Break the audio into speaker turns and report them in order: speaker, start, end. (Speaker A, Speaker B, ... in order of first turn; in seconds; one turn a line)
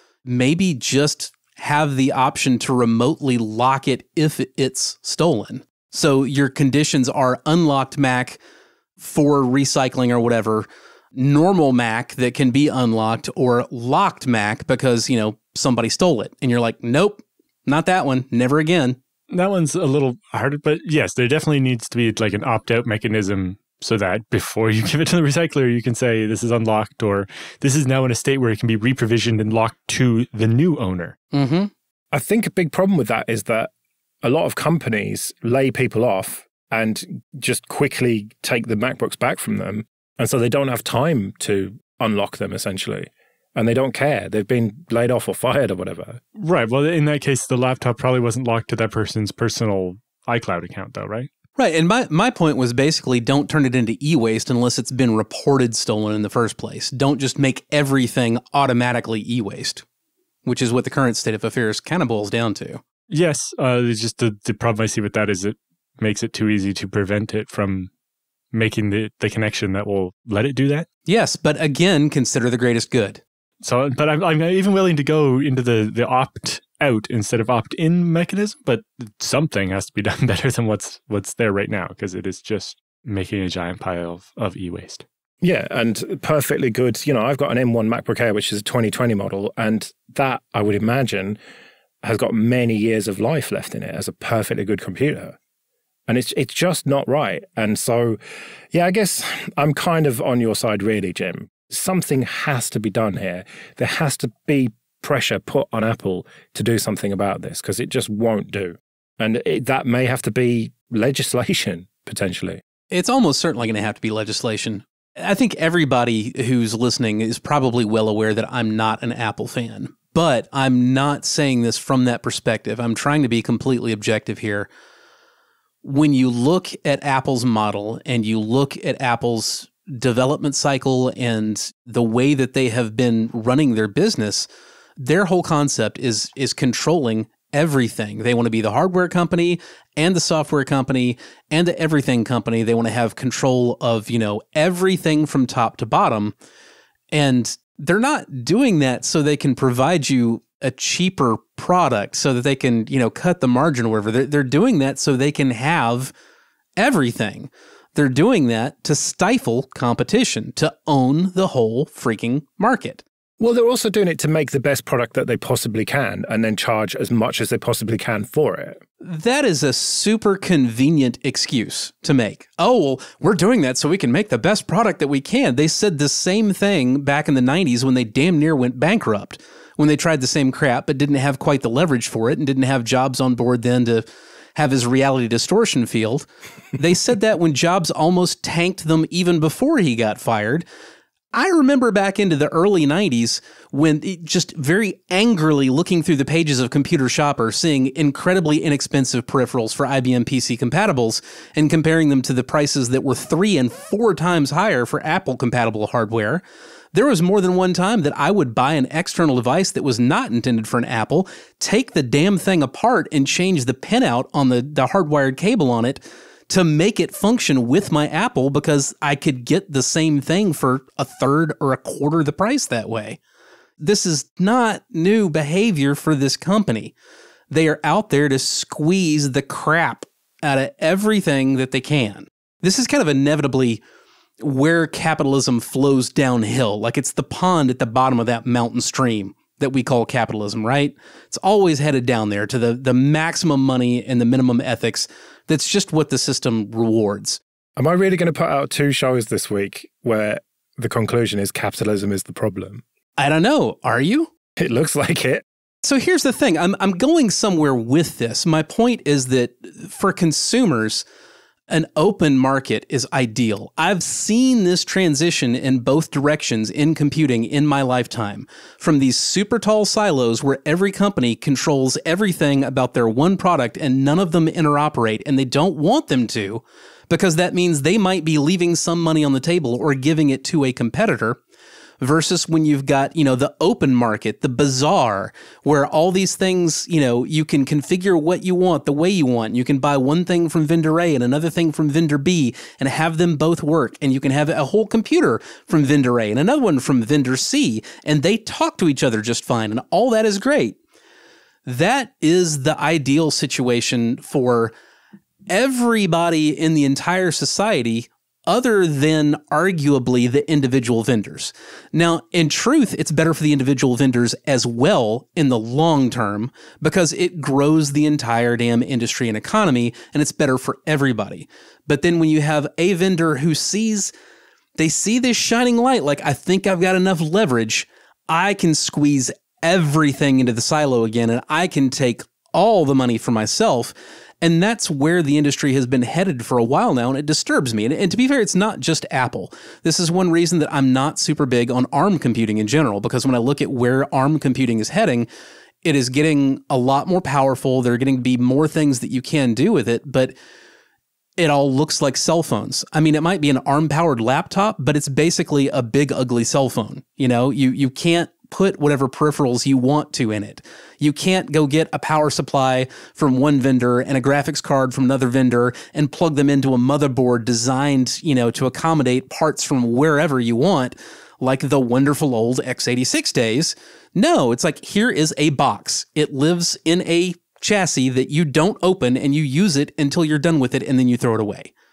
Speaker A: 0.2-8.4
Speaker A: 9.0-19.0
Speaker B: 19.3-31.1
Speaker A: 31.3-31.7
Speaker C: 32.1-33.7
Speaker C: 34.2-46.2
Speaker B: 46.4-51.3
Speaker A: 51.6-59.9
Speaker A: 60.5-62.8
Speaker B: 63.1-67.9
Speaker B: 68.5-70.9
Speaker A: 71.1-73.2
Speaker B: 73.6-85.0
Speaker C: 85.4-91.4
Speaker C: 92.0-95.4
Speaker C: 96.1-98.2
Speaker C: 98.7-112.6
Speaker A: 112.9-124.7
Speaker A: 125.8-134.5
Speaker A: 135.0-146.3
Speaker A: 147.1-156.1
Speaker A: 156.8-163.0
Speaker C: 163.4-168.8
Speaker A: 169.0-184.0
Speaker A: 184.6-190.6
Speaker A: 191.3-206.4
Speaker A: 206.9-223.2
Speaker A: 223.8-226.9
Speaker A: 227.5-233.8
Speaker A: 234.4-247.4
Speaker C: 247.8-252.8
Speaker A: 253.2-254.3
Speaker C: 254.6-255.4
Speaker A: 255.8-261.0
Speaker A: 261.7-281.4
Speaker A: 282.0-300.8
Speaker A: 301.6-304.7
Speaker A: 305.5-324.1
Speaker A: 324.8-345.3
Speaker A: 345.8-350.4
Speaker A: 351.4-381.7